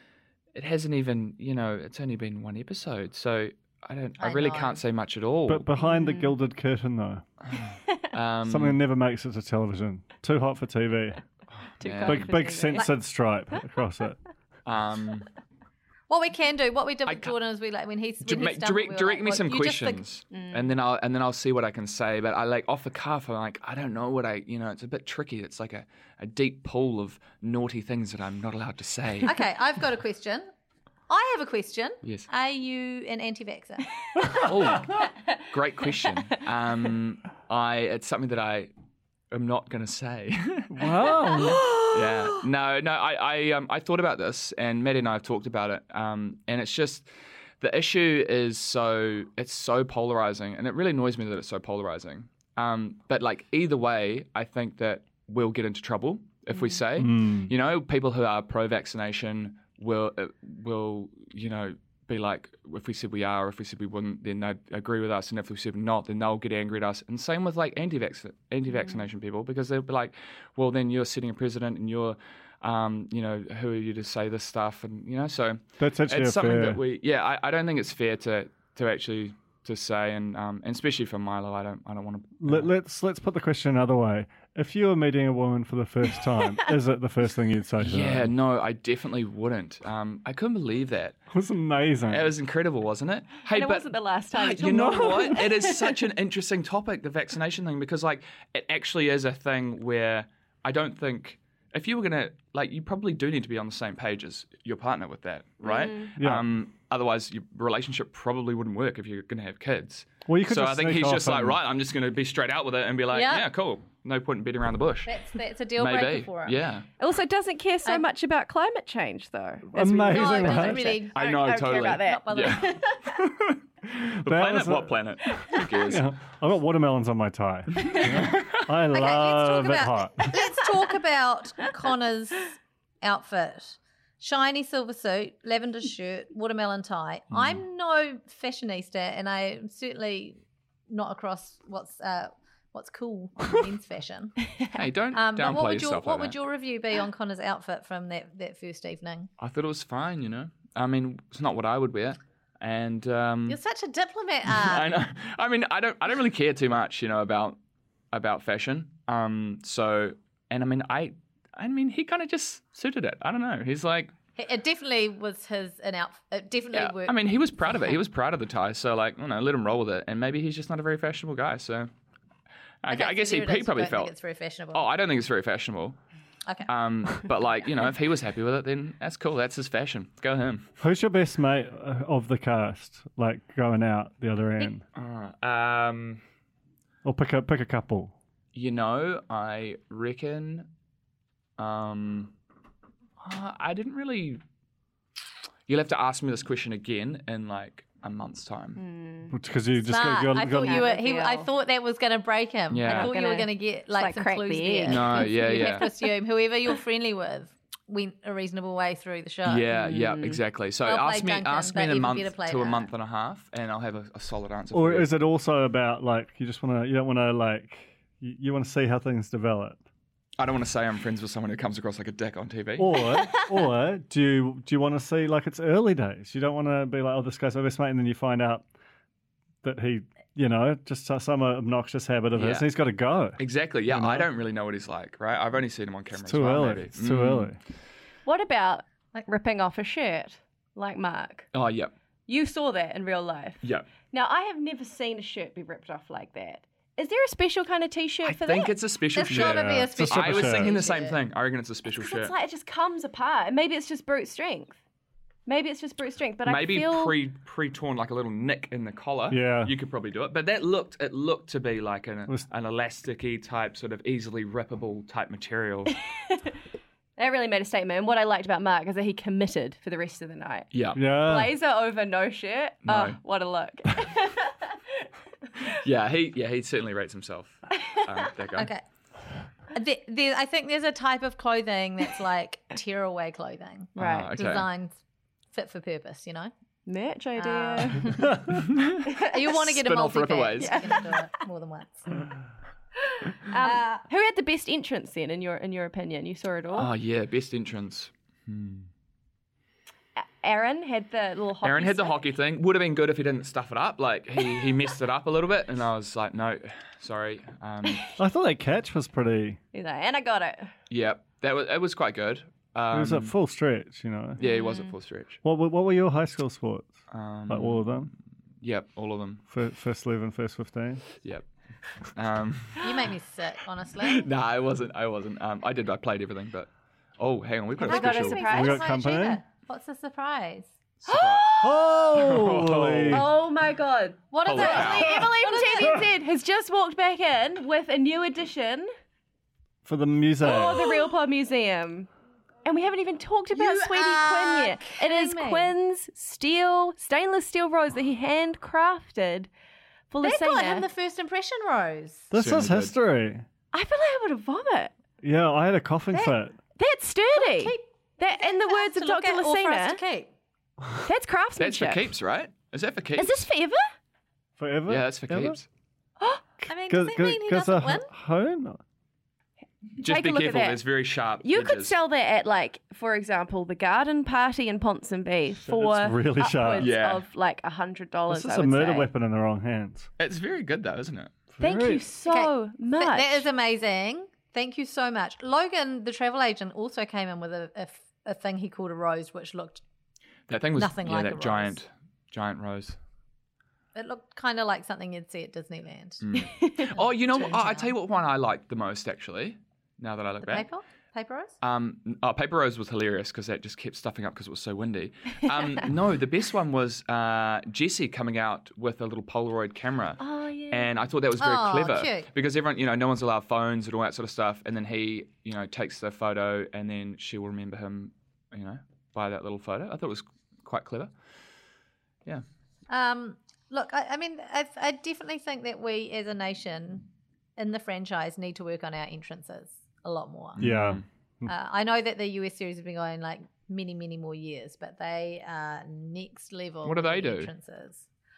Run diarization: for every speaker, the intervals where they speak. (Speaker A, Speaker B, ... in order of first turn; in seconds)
Speaker A: 0.5-5.7, 7.5-8.8, 11.8-12.4, 14.6-15.3, 17.1-17.3, 18.2-29.4, 34.3-38.7, 39.3-40.8, 41.8-47.1, 47.6-82.7, 87.8-91.2, 92.1-115.1, 115.8-116.9, 121.1-126.1, 128.2-128.6, 137.3-137.6, 144.7-146.3, 149.4-153.6, 154.5-157.6, 158.1-164.1, 166.7-171.9, 172.8-174.1, 174.7-176.0, 176.7-180.7, 184.9-186.2, 188.5-190.7, 191.6-192.3, 193.2-194.4, 195.7-198.8, 202.7-203.1, 204.8-205.8, 209.4-215.1, 220.4-223.1, 232.3-232.7, 233.4-237.5, 241.5-241.9, 243.6-243.9, 248.2-252.3, 256.4-265.9, 270.7-271.0, 272.8-273.2, 275.7-278.7, 284.0-284.7, 288.6-290.8, 296.7-298.9, 301.6-308.0, 310.9-313.3, 314.4-315.4, 317.1-319.4, 322.1-323.1, 324.0-328.4, 331.0-331.6, 332.1-333.3, 334.4-335.3, 352.3-352.9, 361.6-363.4, 364.9-365.6, 370.0-371.9, 376.8-377.2, 380.2-381.3, 390.5-393.0, 396.2-400.7, 401.6-421.1, 430.6-431.0, 436.8-437.5
Speaker B: 4.2-4.8, 16.1-20.0, 29.2-30.5, 31.1-33.9, 113.1-113.5, 115.0-116.6, 120.0-121.2, 122.0-122.6, 128.9-144.3, 145.1-149.3, 153.5-154.9, 164.3-167.2, 172.9-174.9, 199.9-209.7, 210.8-212.9, 249.1-251.2, 278.6-278.8, 279.7-285.0, 285.5-286.5, 287.4-288.2, 289.2-292.1, 293.6-294.0, 322.8-324.3, 327.8-330.7, 334.3-336.0, 343.5-345.7, 350.2-352.3, 357.3-357.8, 358.3-360.3, 366.7-368.1, 382.3-389.8, 390.8-391.8, 393.9-396.2, 396.9-397.9, 400.4-401.5, 411.4-412.3, 422.9-430.6, 431.4-438.0
Speaker C: 5.5-7.2, 8.4-11.2, 12.0-14.2, 40.7-41.8, 57.0-57.5, 75.8-76.8, 82.4-88.3, 91.3-92.3, 94.6-95.4, 106.2-106.5, 110.2-111.6, 119.7-121.0, 124.2-125.1, 125.8-130.3, 180.8-184.8, 187.0-188.1, 199.3-200.9, 214.7-219.8, 222.8-228.6, 229.6-234.3, 236.2-237.6, 249.3-250.7, 259.3-259.7, 270.9-271.5, 308.2-309.6, 312.9-314.4, 315.4-316.9, 317.5-318.1, 319.5-321.0, 328.4-329.4, 331.6-333.3, 339.8-340.9, 352.3-353.4, 355.2-356.6, 364.6-365.6, 366.6-368.8, 375.6-376.9, 378.3-380.1, 381.6-382.0, 430.6-431.5
Speaker D: 5.8-6.3, 11.8-12.9, 20.3-20.7, 41.5-41.8, 68.7-69.0, 93.5-96.0, 105.6-106.1, 117.0-123.0, 198.8-199.3, 200.4-201.5, 202.9-205.9, 209.7-210.4, 238.2-241.5, 242.3-248.8, 252.0-254.8, 255.4-257.2, 267.2-275.1, 283.9-284.3, 286.9-288.3, 290.6-291.3, 293.0-296.9, 300.2-302.2, 309.7-310.7, 314.4-314.9, 327.8-328.9, 331.1-331.9, 333.1-338.9, 340.4-342.1, 342.6-349.5, 350.1-350.9, 353.7-354.9, 356.8-360.0, 361.0-362.1, 363.1-363.8, 370.0-370.8, 371.4-379.1, 381.6-383.4, 410.2-411.0